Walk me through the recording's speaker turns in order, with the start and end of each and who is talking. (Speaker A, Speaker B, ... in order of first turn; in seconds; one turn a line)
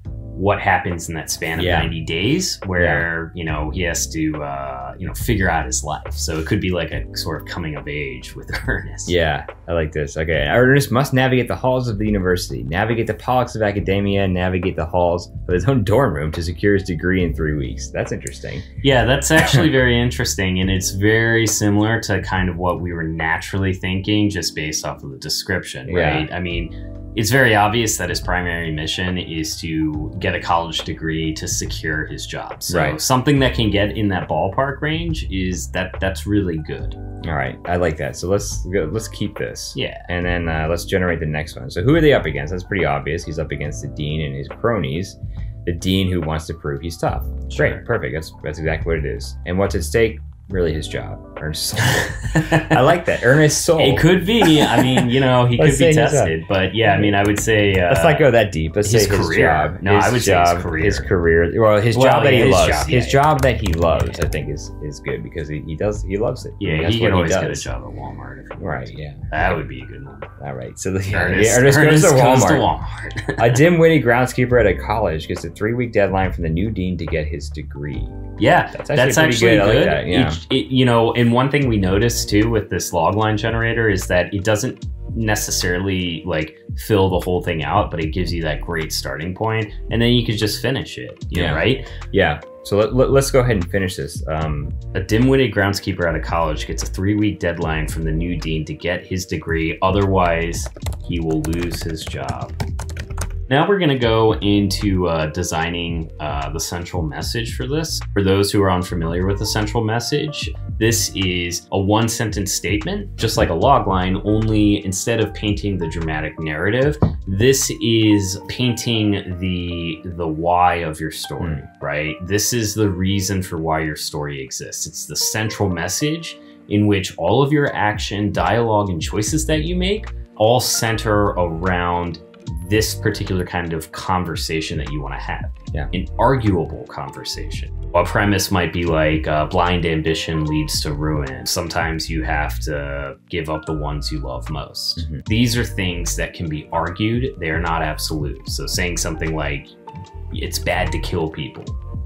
Speaker A: 0.3-9.2
Speaker B: 1.5-1.9
Speaker B: 2.8-3.1
Speaker B: 9.1-18.7
Speaker A: 18.8-37.0
Speaker B: 19.4-19.7
Speaker B: 25.9-26.3
Speaker B: 32.7-33.0
Speaker B: 37.2-57.2
Speaker A: 39.8-40.1
Speaker A: 47.5-47.8
Speaker A: 51.9-52.8
Speaker A: 53.8-58.3
Speaker B: 57.9-67.7
Speaker A: 58.8-61.1
Speaker A: 61.9-63.3
Speaker A: 63.9-64.3
Speaker A: 66.6-70.3
Speaker B: 68.6-69.5
Speaker B: 70.4-72.7
Speaker A: 71.1-73.6
Speaker B: 73.4-78.2
Speaker A: 78.4-91.9
Speaker B: 78.7-80.4
Speaker B: 91.3-94.8
Speaker A: 94.9-102.5
Speaker A: 103.5-149.7
Speaker B: 121.4-121.7
Speaker B: 145.0-145.2
Speaker A: 150.3-151.8